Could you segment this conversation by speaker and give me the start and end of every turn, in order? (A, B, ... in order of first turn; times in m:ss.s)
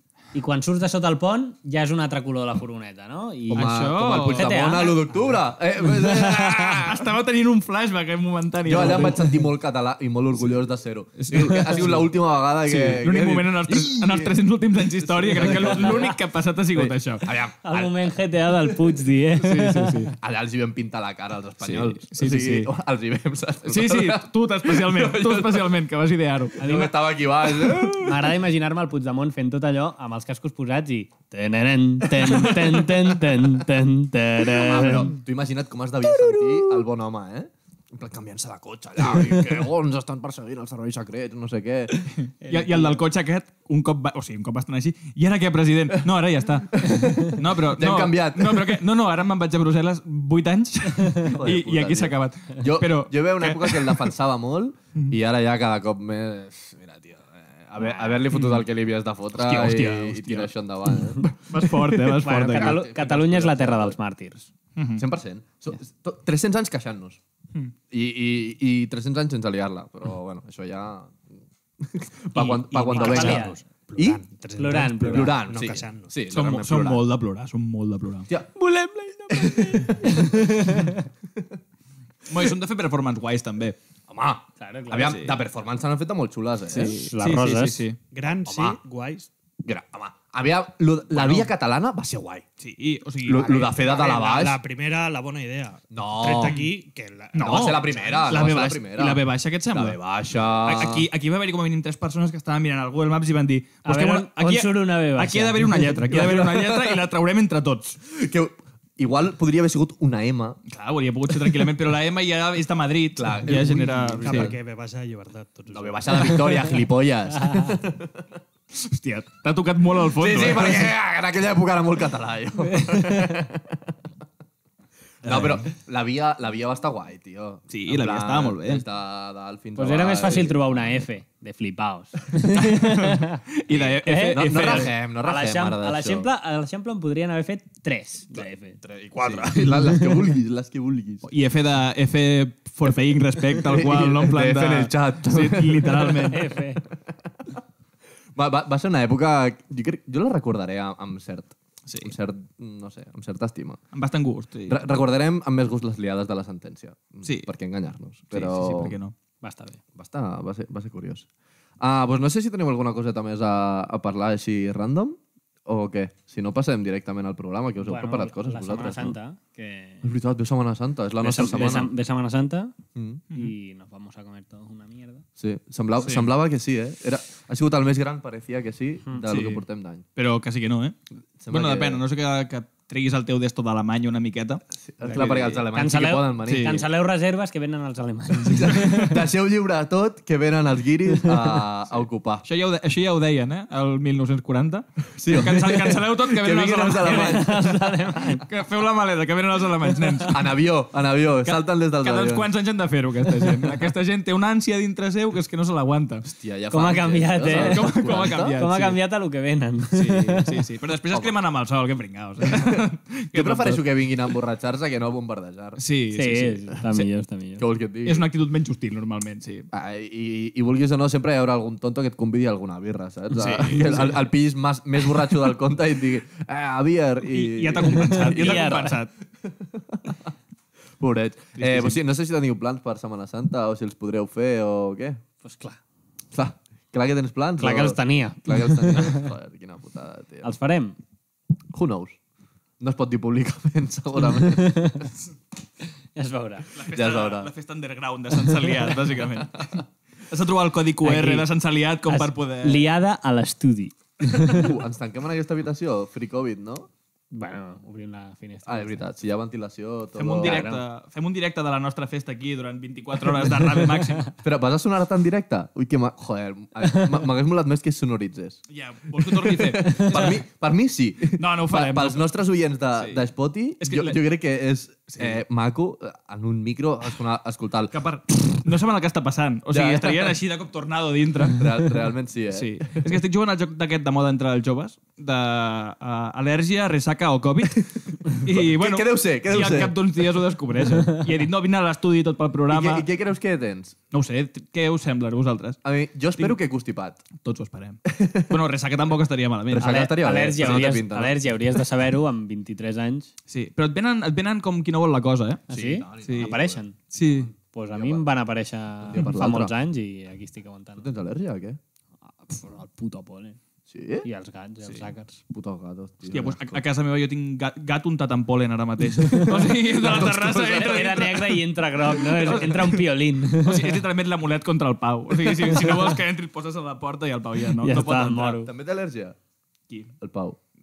0:00.3-0:05.0 A
0:03.5-0:07.1 B
0:03.5-0:04.8 C
0:05.9-0:06.5 A
0:06.2-0:09.3 C
0:08.6-0:14.4 B
0:11.2-0:12.1 C
0:12.6-0:17.3 C
0:15.0-0:16.1 B
0:15.4-0:16.0 A
0:16.7-0:18.1 B
0:17.6-0:20.1 A
0:19.4-0:20.1 C
0:20.2-0:25.8 B
0:21.6-0:22.7 C
0:23.6-0:26.8 C
0:26.6-0:28.3 B
0:26.6-0:26.9 A
0:27.9-0:35.1 A
0:32.2-0:32.9 B
0:34.4-0:42.1 B
0:41.9-0:54.1 C
0:42.4-0:43.0 A
0:46.7-0:48.8 B
0:51.2-1:04.0 B
0:58.3-0:58.6 C
0:59.3-1:02.8 C
1:02.2-1:04.5 A
1:04.8-1:05.0 C
1:05.0-1:07.2 B
1:07.9-1:11.3 B
1:11.8-1:14.2 B
1:12.4-1:13.2 C
1:12.7-1:16.1 D
1:13.0-1:13.6 A
1:14.6-1:15.4 A
1:15.0-1:17.0 B
1:16.3-1:18.3 C
1:18.6-1:21.0 A
1:19.3-1:20.7 B
1:22.3-1:23.8 C
1:24.1-1:27.0 B
1:24.6-1:25.2 A
1:25.0-1:25.4 C
1:26.7-1:28.0 C
1:26.7-1:27.8 A
1:28.1-1:29.3 D
1:28.4-1:28.8 B
1:29.6-1:32.4 B
1:31.1-1:31.5 C
1:32.6-1:33.6 C
1:33.2-1:34.6 B
1:33.5-1:38.3 D
1:35.9-1:36.6 B
1:36.3-1:36.7 C
1:37.3-1:40.0 C
1:37.4-1:41.1 B
1:40.6-1:48.0 C
1:43.8-1:46.0 A
1:46.0-1:47.0 B
1:48.0-1:50.6 B
1:50.7-1:54.5 C
1:53.2-1:54.5 B
1:54.2-1:56.7 D
1:55.7-1:58.2 B
1:58.7-2:00.9 C
2:00.1-2:03.8 B
2:02.7-2:03.2 A
2:05.2-2:10.6 B
2:05.2-2:05.6 C
2:07.7-2:08.8 C
2:09.8-2:13.4 A
2:12.5-2:14.9 C
2:13.7-2:16.3 B
2:14.0-2:20.2 A
2:18.8-2:21.3 B
2:21.2-2:26.5 C
2:23.6-2:26.3 B
2:26.3-2:26.8 A
2:28.3-2:33.8 B
2:31.9-2:32.1 C
2:33.9-2:34.8 C
2:34.7-2:39.0 B
2:38.3-2:39.1 C
2:39.4-2:39.8 A
2:40.0-2:41.2 B
2:41.8-2:49.2 B
2:47.8-2:50.0 A
2:50.0-2:51.9 B
2:51.2-2:52.7 A
2:52.9-2:53.2 B
2:53.3-2:55.2 A
2:55.4-3:00.0 B
2:59.2-2:59.6 C
3:00.2-3:01.0 C
3:01.4-3:02.0 B
3:01.5-3:05.6 C
3:04.8-3:06.8 B
3:05.0-3:09.2 A
3:06.5-3:06.8 C
3:08.4-3:12.4 B
3:08.6-3:09.1 C
3:12.4-3:17.6 C
3:15.1-3:17.6 B
3:17.0-3:18.4 A
3:18.4-3:20.6 C
3:20.3-3:22.5 B
3:21.4-3:26.2 C
3:26.2-3:28.6 B
3:26.7-3:30.6 A
3:27.4-3:29.0 C
3:29.9-3:33.8 C
3:32.4-3:32.8 B
3:33.3-3:35.8 B
3:35.8-3:37.0 C
3:36.1-3:37.6 A
3:37.6-3:38.3 B
3:38.0-3:39.7 C
3:39.7-3:50.3 B
3:43.3-3:44.2 C
3:47.2-3:49.1 C
3:47.8-3:48.9 A
3:51.0-3:55.2 B
3:51.6-3:52.0 C
3:55.4-3:55.8 A
3:56.3-4:00.5 B
3:57.6-3:59.3 A
4:00.4-4:01.0 A
4:01.7-4:02.2 B
4:02.8-4:05.1 B
4:04.3-4:05.1 A
4:06.1-4:06.7 A
4:06.7-4:12.8 C
4:06.9-4:07.5 B
4:11.0-4:11.5 A
4:12.1-4:14.7 A
4:14.3-4:16.9 B
4:17.3-4:19.1 A
4:18.6-4:20.7 B
4:20.1-4:24.3 C
4:20.4-4:20.8 A
4:24.4-4:28.6 B
4:28.7-4:30.4 C
4:29.2-4:37.9 B
4:31.4-4:32.3 C
4:32.9-4:33.2 C
4:33.8-4:34.2 C
4:35.1-4:35.4 C
4:37.9-4:41.8 C
4:39.7-4:40.4 B
4:41.5-4:43.0 B
4:42.5-4:53.0 C
4:48.4-4:50.0 B
4:52.7-4:53.9 B
4:54.1-4:55.8 C
4:55.8-4:57.2 B
4:57.4-5:00.0 C
4:58.1-4:58.5 B
4:59.7-5:01.4 B
4:59.8-5:03.3 A
5:03.5-5:05.6 C
5:05.7-5:06.8 B
5:05.7-5:11.1 A
5:06.2-5:06.6 C
5:07.1-5:07.5 C
5:07.9-5:08.2 B
5:09.0-5:09.7 B
5:11.0-5:11.8 B
5:12.4-5:13.6 A
5:13.9-5:14.3 B
5:14.2-5:15.4 A
5:15.5-5:16.8 B
5:16.3-5:21.6 C
5:19.2-5:24.0 A
5:20.0-5:20.8 B
5:22.1-5:23.0 C
5:23.6-5:28.6 C
5:25.5-5:26.2 A
5:27.8-5:28.7 A
5:28.6-5:29.4 B
5:30.2-5:30.6 B